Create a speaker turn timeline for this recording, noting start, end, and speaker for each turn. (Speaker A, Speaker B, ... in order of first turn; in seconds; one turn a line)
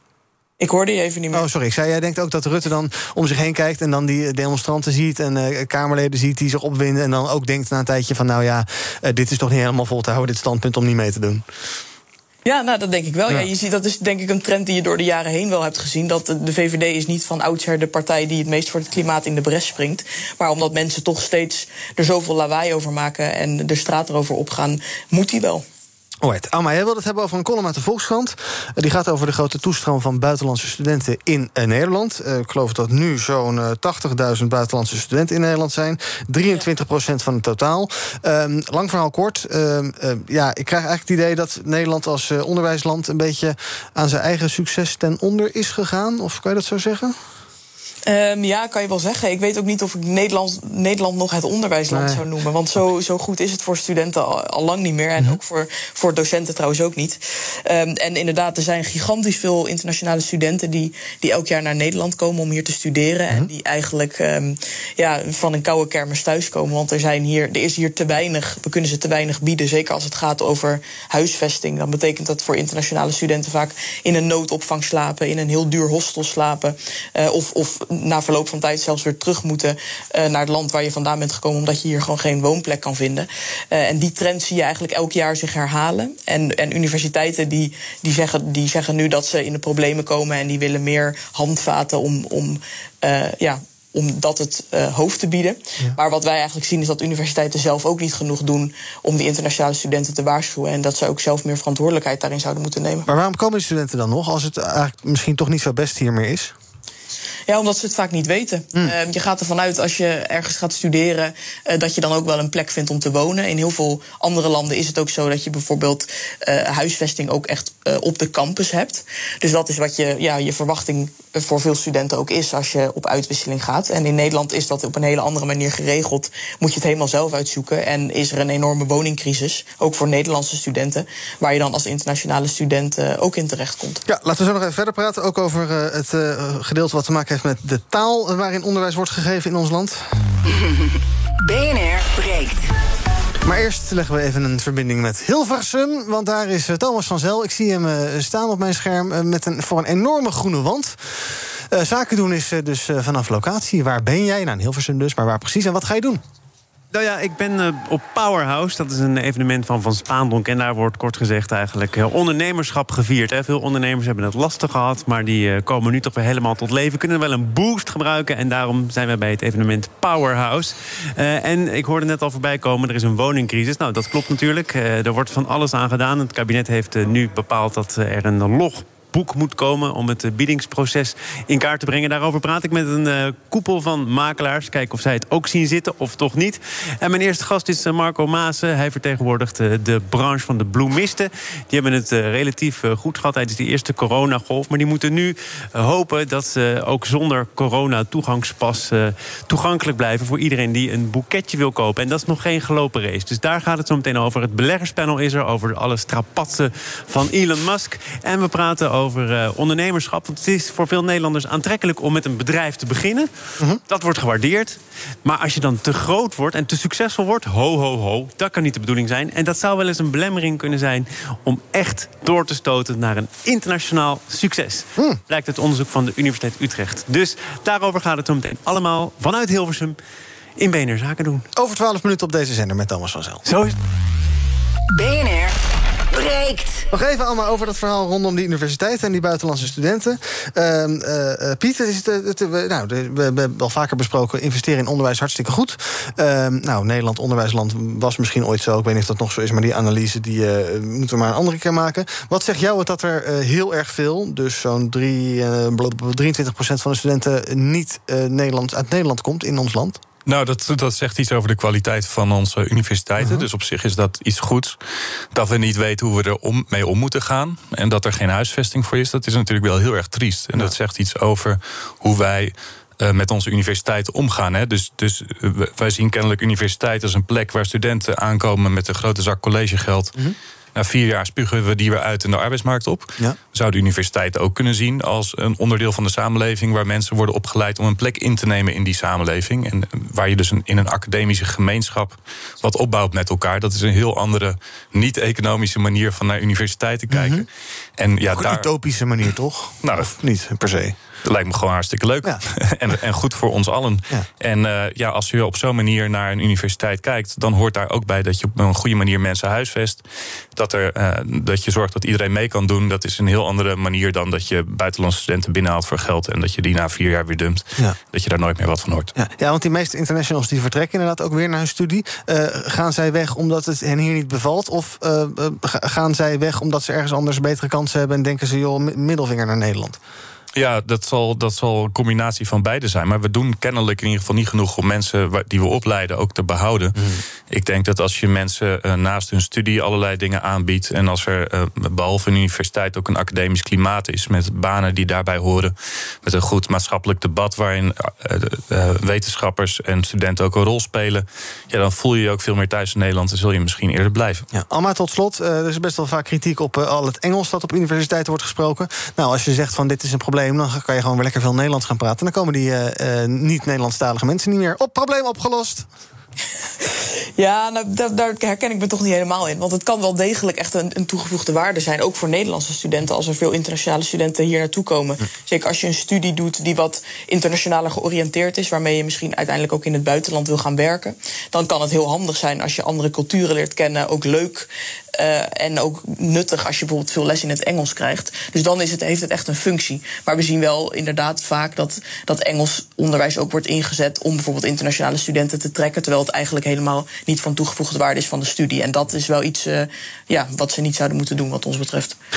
Speaker A: 0.6-1.5
Speaker B: 1.3-11.4
Speaker A: 12.4-25.6
Speaker B: 26.2-47.1
Speaker A: 48.0-103.1
Speaker B: 51.9-52.2
Speaker B: 103.0-106.5
Speaker A: 107.5-134.0
Speaker B: 134.1-140.0
Speaker C: 140.4-142.7
Speaker B: 143.4-156.2
Speaker D: 156.9-213.3
Speaker D: 213.9-230.0
Speaker D: 230.6-231.5
Speaker B: 231.5-233.5
Speaker D: 233.4-233.8
Speaker C: 234.9-235.5
Speaker C: 236.1-236.9
Speaker B: 236.9-260.0
Speaker E: 260.2-264.8
Speaker B: 263.2-263.4
Speaker E: 265.3-280.2
Speaker E: 280.8-298.7
Speaker B: 297.1-297.4
Speaker B: 298.3-300.9
Speaker E: 299.8-300.1
Speaker E: 301.2-310.0
Speaker E: 310.5-319.1
Speaker B: 319.1-330.0
Speaker E: 330.5-337.0
Speaker B: 337.0-337.2
Speaker E: 337.5-354.4
Speaker B: 354.5-365.9
Speaker A: 367.4-402.1